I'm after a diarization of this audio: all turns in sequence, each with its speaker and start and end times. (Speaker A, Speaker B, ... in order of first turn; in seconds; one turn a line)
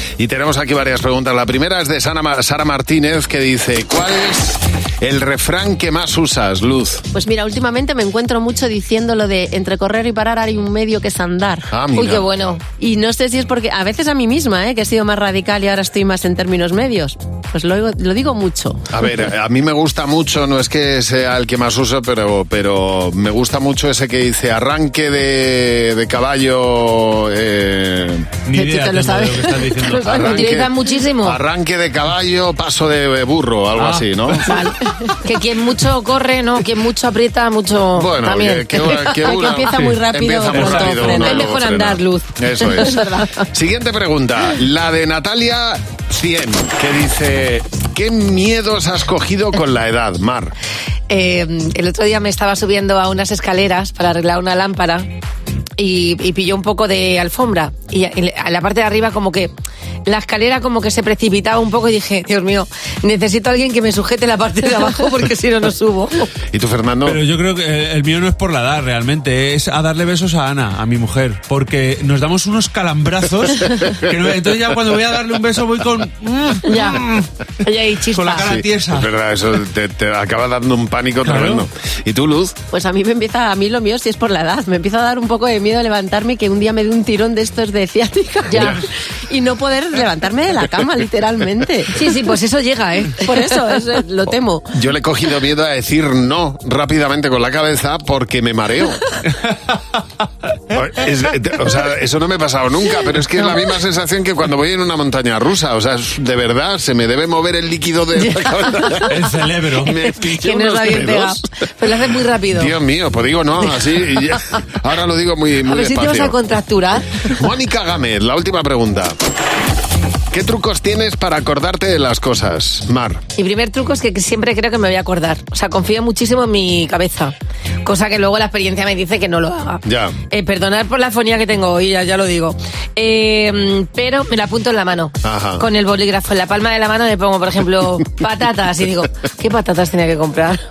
Speaker A: 0.2-7.0
Speaker B: 7.1-11.7
Speaker A: 11.7-12.3
Speaker C: 11.9-12.6
Speaker B: 12.8-18.8
Speaker A: 18.9-28.4
Speaker D: 28.4-30.4
Speaker C: 28.6-31.4
Speaker A: 29.9-34.6
Speaker B: 30.3-30.6
Speaker D: 33.8-34.7
Speaker C: 34.4-39.6
Speaker A: 37.9-50.5
Speaker B: 39.2-41.5
Speaker D: 39.7-40.0
Speaker D: 40.5-41.0
Speaker C: 40.9-43.4
Speaker C: 51.1-55.1
Speaker C: 55.8-59.5
Speaker C: 60.1-66.3
Speaker A: 66.5-67.2
Speaker D: 67.0-77.3
Speaker C: 76.7-77.0
Speaker C: 77.6-78.5
Speaker D: 78.1-79.1
Speaker A: 78.4-82.5
Speaker D: 81.2-81.6
Speaker B: 82.7-92.0
Speaker A: 88.5-88.8
Speaker C: 91.9-93.8
Speaker B: 93.2-94.8
Speaker A: 94.7-99.1
Speaker A: 100.7-109.2
Speaker C: 108.2-109.3
Speaker D: 109.1-109.9
Speaker A: 109.8-111.6
Speaker C: 109.8-112.8
Speaker A: 112.5-116.3
Speaker C: 115.6-117.3
Speaker A: 117.2-119.2
Speaker A: 120.3-123.2
Speaker C: 123.4-140.6
Speaker A: 129.8-130.2
Speaker A: 135.2-135.6